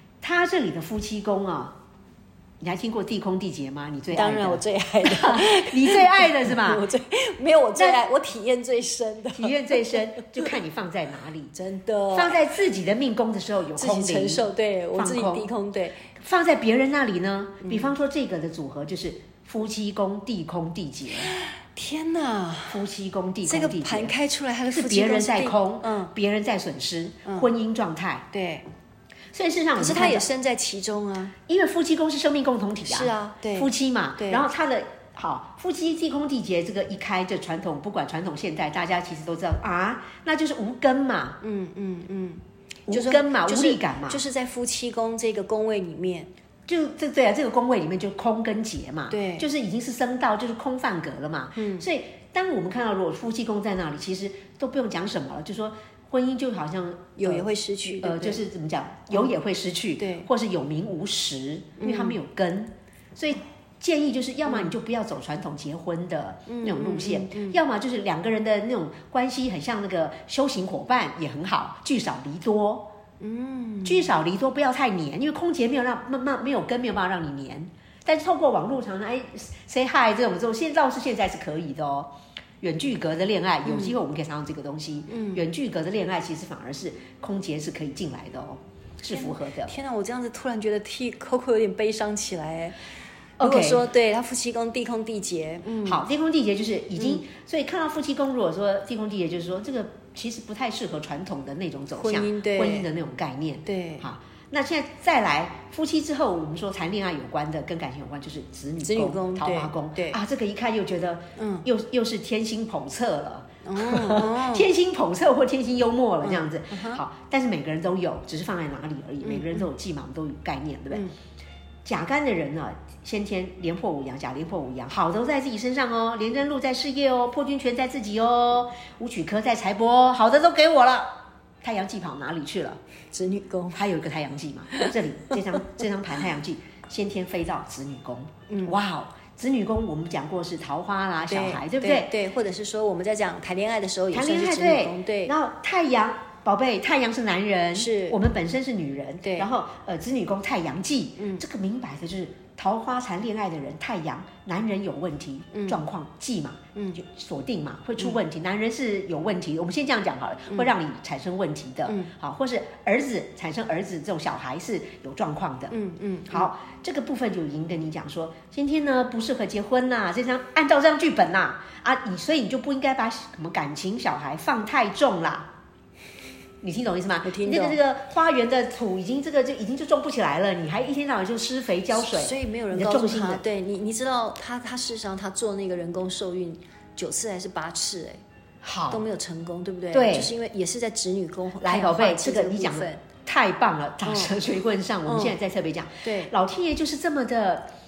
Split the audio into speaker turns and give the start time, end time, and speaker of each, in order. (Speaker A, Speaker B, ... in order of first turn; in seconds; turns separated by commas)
Speaker A: 0.2-1.8, Speaker A: 2.6-6.8, Speaker B: 4.1-10.6, Speaker A: 9.3-11.5, Speaker B: 11.5-12.4, Speaker A: 12.1-15.5, Speaker B: 13.8-16.0, Speaker A: 16.2-21.3, Speaker B: 21.1-22.8, Speaker A: 22.7-24.1, Speaker B: 23.4-26.1, Speaker A: 24.7-28.3, Speaker B: 28.3-28.6, Speaker A: 29.3-30.3, Speaker B: 29.8-31.3, Speaker A: 31.5-41.4, Speaker B: 32.9-34.4, Speaker B: 41.4-46.3, Speaker A: 42.9-44.2, Speaker A: 46.7-72.9, Speaker B: 49.1-49.5, Speaker B: 51.5-51.9, Speaker B: 57.2-58.4, Speaker B: 60.0-60.3, Speaker B: 61.8-62.2, Speaker B: 64.5-64.7, Speaker B: 66.5-67.6, Speaker B: 73.2-74.1, Speaker A: 73.8-89.7, Speaker B: 83.6-83.9, Speaker B: 85.1-85.4, Speaker B: 89.1-92.8, Speaker A: 93.4-93.9, Speaker B: 93.4-96.0, Speaker A: 95.8-121.0, Speaker B: 97.0-97.2, Speaker B: 102.0-102.9, Speaker B: 103.7-104.1, Speaker B: 108.8-110.2, Speaker B: 111.4-111.7, Speaker B: 113.6-114.7, Speaker B: 116.2-117.0, Speaker B: 119.2-119.6, Speaker A: 121.8-132.8, Speaker B: 133.1-133.8, Speaker A: 133.7-142.1, Speaker B: 138.5-138.8, Speaker B: 141.3-145.3, Speaker A: 144.1-165.7, Speaker B: 147.7-148.2, Speaker B: 149.2-149.5, Speaker B: 155.5-155.8, Speaker B: 161.8-162.1, Speaker B: 165.7-166.5, Speaker A: 166.3-175.5, Speaker A: 176.6-183.4, Speaker B: 177.2-177.8, Speaker B: 181.9-188.2, Speaker A: 188.6-189.1, Speaker B: 188.9-193.0, Speaker A: 189.9-190.3, Speaker A: 191.6-197.7, Speaker B: 194.0-194.4, Speaker B: 195.0-195.3, Speaker B: 196.0-196.3